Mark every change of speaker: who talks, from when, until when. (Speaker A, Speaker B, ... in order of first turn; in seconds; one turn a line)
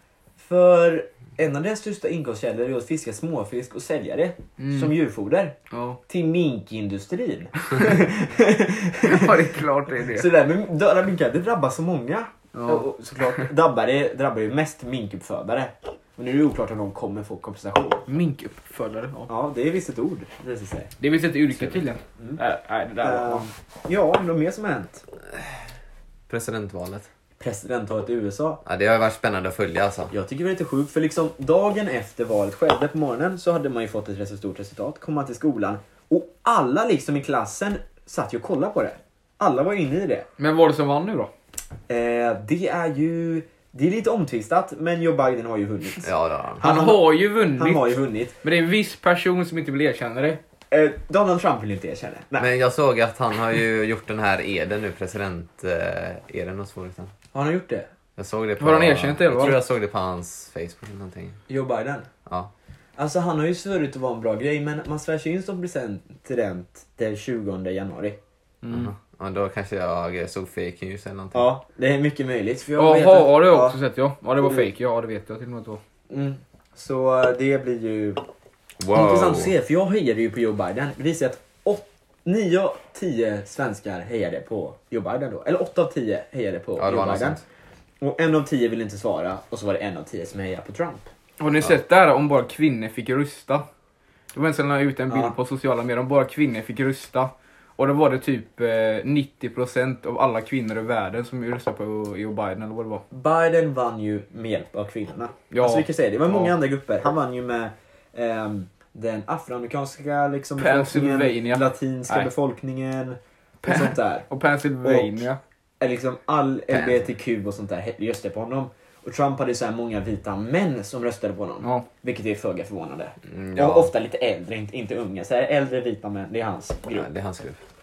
Speaker A: 0.4-5.5
Speaker B: 4.6-4.9
Speaker B: 5.7-6.0
Speaker A: 6.1-18.1
Speaker B: 9.0-10.3
Speaker B: 12.5-12.9
Speaker B: 18.1-19.3
Speaker A: 19.3-20.9
Speaker B: 21.0-23.5
Speaker A: 23.0-25.0
Speaker C: 26.3-27.1
Speaker A: 27.4-28.6
Speaker C: 28.6-30.1
Speaker A: 30.1-40.3
Speaker B: 40.4-41.3
Speaker A: 41.9-48.4
Speaker C: 46.0-46.6
Speaker B: 46.6-50.4
Speaker A: 50.7-52.5
Speaker C: 52.4-57.1
Speaker A: 57.3-57.9
Speaker C: 58.2-61.4
Speaker B: 58.6-59.6
Speaker A: 61.5-62.1
Speaker C: 62.2-62.5
Speaker A: 63.0-68.2
Speaker B: 68.6-68.9
Speaker C: 68.7-71.5
Speaker A: 71.3-73.8
Speaker B: 72.8-75.8
Speaker A: 76.1-78.2
Speaker C: 78.8-79.5
Speaker A: 78.9-87.4
Speaker C: 86.8-87.4
Speaker A: 88.0-91.1
Speaker B: 91.4-93.6
Speaker B: 94.3-103.0
Speaker A: 95.1-95.3
Speaker A: 103.1-114.3
Speaker B: 105.5-106.5
Speaker B: 110.6-112.3
Speaker B: 113.6-115.4
Speaker A: 114.8-115.2
Speaker A: 115.8-127.1
Speaker C: 116.7-117.0
Speaker C: 123.3-123.9
Speaker C: 126.9-127.6